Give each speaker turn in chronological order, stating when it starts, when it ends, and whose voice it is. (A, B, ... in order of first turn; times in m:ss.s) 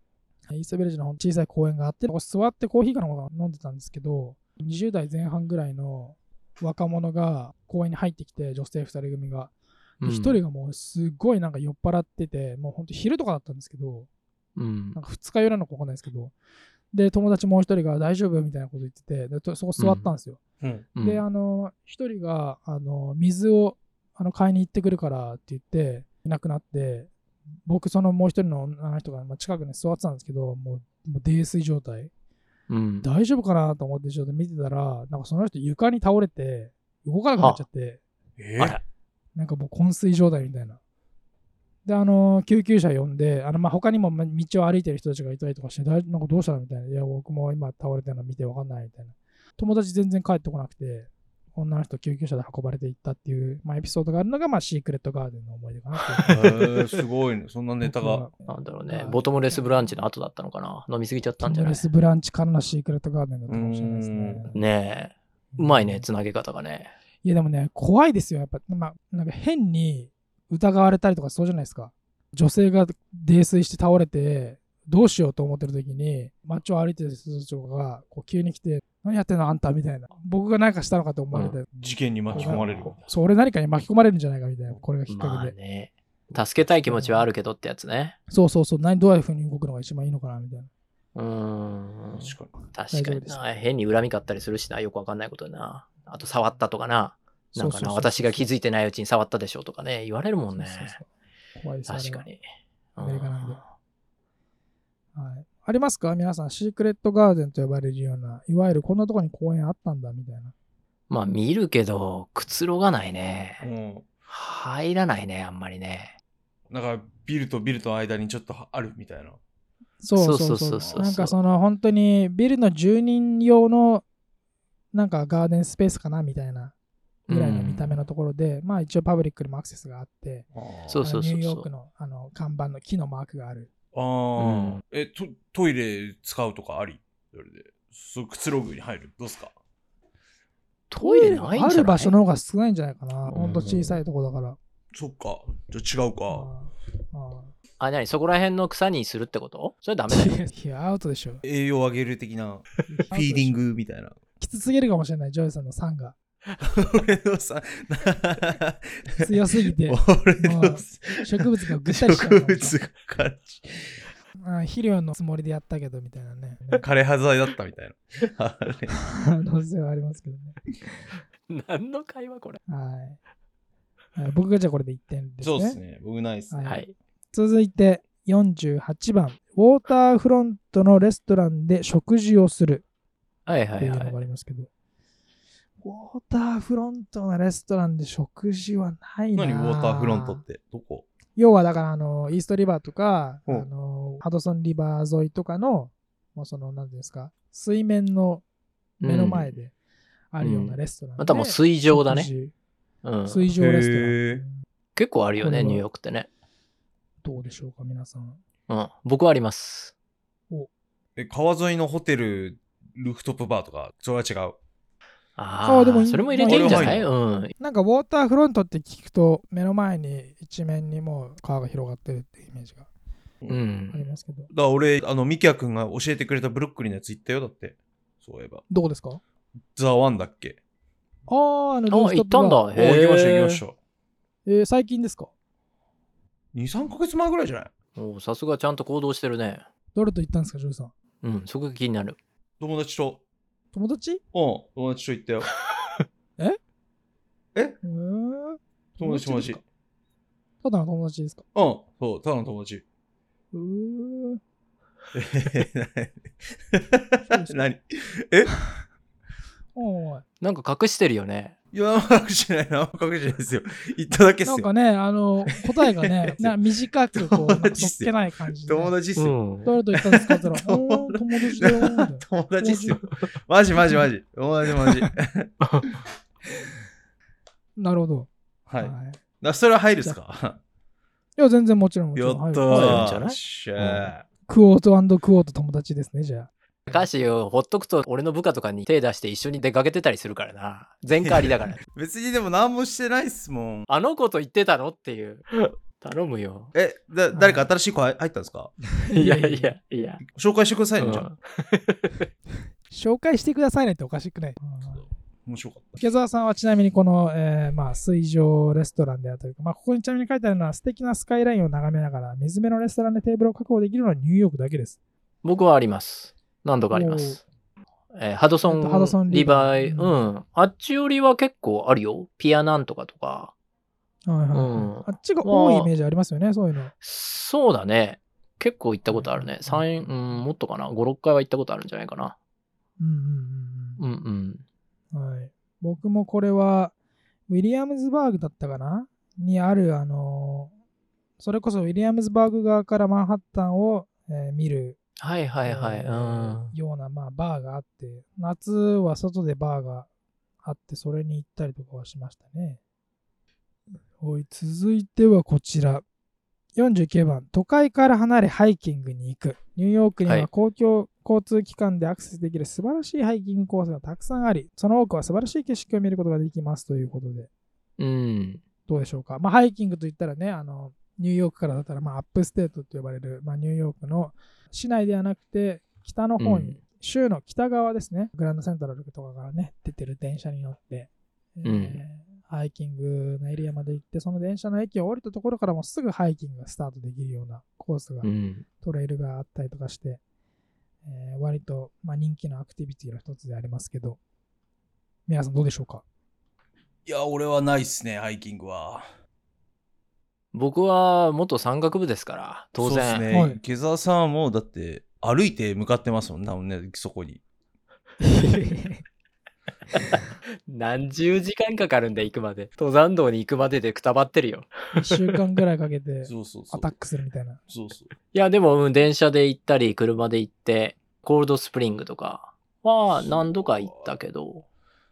0:00.5-0:14.1 A
0:10.0-0:10.4 B
0:14.6-0:15.0 B
0:14.9-0:16.3 A
0:16.9-0:20.4 A
0:19.8-0:20.0 B
0:20.6-0:20.8 C
0:20.9-0:21.2 B
0:21.0-0:27.1 A
0:27.6-0:32.1 A
0:32.7-0:33.1 B
0:33.0-0:38.0 A
0:38.4-0:38.8 C
0:39.4-0:40.8 A
0:41.8-0:56.6 A
0:56.1-0:56.7 B
0:56.3-0:58.2 C
0:57.8-0:59.9 A
0:58.4-1:01.9 B
1:01.4-1:04.6 A
1:03.5-1:04.5 C
1:04.5-1:06.9 B
1:05.5-1:06.0 A
1:07.2-1:21.6 A
1:21.7-1:23.0 C
1:22.3-1:25.5 A
1:25.1-1:28.2 B
1:26.3-1:26.7 C
1:26.8-1:27.3 A
1:28.3-1:30.7 A
1:31.1-1:41.0 B
1:32.2-1:32.5 C
1:32.9-1:33.4 A
1:37.6-1:38.5 A
1:40.5-1:42.3 A
1:41.9-1:42.4 B
1:43.0-1:43.7 B
1:43.0-1:43.6 A
1:45.1-1:50.5 A
1:51.1-1:53.7 B
1:53.6-1:54.1 C
1:54.3-1:56.1 B
1:56.7-1:59.4 C
2:00.0-2:04.0 A
2:00.2-2:01.3 B
2:00.8-2:01.1 C
2:04.9-2:06.7 A
2:07.3-2:08.0 B
2:07.3-2:10.5 A
2:10.5-2:11.0 C
2:10.9-2:11.7 B
2:11.0-2:13.7 A
2:13.9-2:19.5 C
2:14.4-2:14.8 B
2:20.9-2:22.1 B
2:21.0-2:24.6 A
2:23.3-2:24.0 B
2:24.9-2:26.5 C
2:26.3-2:27.5 A
2:27.8-2:30.4 B
2:30.1-2:31.4 A
2:31.4-2:34.2 C
2:32.9-2:33.6 A
2:34.4-2:36.2 A
2:36.6-2:44.0 C
2:39.2-2:42.8 A
2:44.4-2:46.8 A
2:46.8-2:49.0 C
2:49.1-2:50.6 A
2:51.5-2:52.6 B
2:52.7-2:53.2 A
2:54.2-2:55.8 A
2:55.4-2:56.6 C
2:56.5-3:02.8 A
3:03.4-3:04.2 B
3:03.8-3:04.7 A
3:05.8-3:10.4 A
3:09.4-3:11.0 C
3:11.4-3:18.4 A
3:19.0-3:19.5 B
3:19.0-3:19.7 A
3:20.3-3:22.5 A
3:20.4-3:22.3 B
3:23.0-3:23.5 B
3:23.3-3:24.6 A
3:23.6-3:24.4 C
3:25.0-3:26.3 B
3:25.4-3:25.8 A
3:27.2-3:28.4 A
3:28.7-3:29.9 B
3:31.2-3:34.6 C
3:35.4-3:37.5 B
3:35.6-3:37.0 A
3:36.4-3:37.1 C
3:37.6-3:42.9 A
3:43.5-3:44.0 B
3:43.9-3:44.5 A
3:44.5-3:48.6 C
3:48.7-3:49.2 A
3:49.7-3:50.6 C
3:51.3-3:52.7 A
3:51.9-3:53.6 B
3:52.7-3:53.8 C
3:54.4-3:55.3 A
3:56.5-3:57.7 C
3:58.0-3:59.6 B
3:59.9-4:00.9 A
4:01.2-4:02.2 B
4:02.6-4:03.2 C
4:03.7-4:04.2 A
4:04.3-4:05.5 C
4:07.8-4:09.6 A
4:09.0-4:09.6 C
4:10.6-4:11.4 A
4:11.5-4:12.8 C
4:13.5-4:14.4 A
4:15.1-4:18.5 C
4:17.3-4:17.6 A
4:19.7-4:20.2 A
4:20.4-4:21.6 B
4:21.7-4:24.7 C
4:24.4-4:28.9 A
4:26.0-4:26.5 C
4:27.1-4:29.4 C
4:29.2-4:29.7 B
4:29.6-4:33.0 A
4:29.9-4:35.5 C
4:35.6-4:35.9 B
4:37.8-4:39.2 A
4:38.7-4:40.6 C
4:41.4-4:43.0 A
4:42.1-4:44.2 C
4:42.7-4:44.1 B
4:44.5-4:47.0 A
4:46.9-4:51.8 B
4:51.2-4:53.9 C
4:53.9-4:56.7 B
4:56.7-4:58.7 C
4:57.3-4:57.6 A
4:59.0-4:59.7 A
4:59.1-5:00.2 B
5:00.2-5:01.2 C
5:01.0-5:02.3 B
5:02.9-5:05.1 A
5:05.4-5:06.0 C
5:06.0-5:15.0 A
5:15.4-5:17.4 B
5:16.9-5:17.4 A
5:18.1-5:23.5 B
5:18.6-5:20.3 A
5:24.3-5:26.9 A
5:24.5-5:25.9 B
5:27.0-5:32.4 B
5:29.1-5:30.5 A
5:33.0-5:34.0 A
5:34.0-5:34.6 B
5:35.1-5:36.9 A
5:37.5-5:40.7 A
5:41.4-5:45.0 A
5:45.2-5:46.7 B
5:45.6-5:50.1 A
5:50.6-5:52.8 A
5:54.2-5:56.0 A
5:56.8-6:07.5 A
6:08.0-6:08.6 B
6:08.9-6:28.3 A
6:16.4-6:16.8 B
6:21.6-6:22.0 B
6:28.2-6:28.6 B
6:28.8-6:30.2 A
6:31.0-6:34.2 A
6:35.3-6:36.0 A
6:37.0-6:39.1 C
6:40.5-6:43.3 B
6:42.8-6:47.4 C
6:43.3-6:43.6 A
6:48.2-6:49.0 A
6:50.7-6:55.2 B
6:55.0-6:57.6 A
6:56.2-6:56.9 C
6:57.7-6:58.1 C
6:58.3-7:04.6 B
7:03.1-7:04.2 C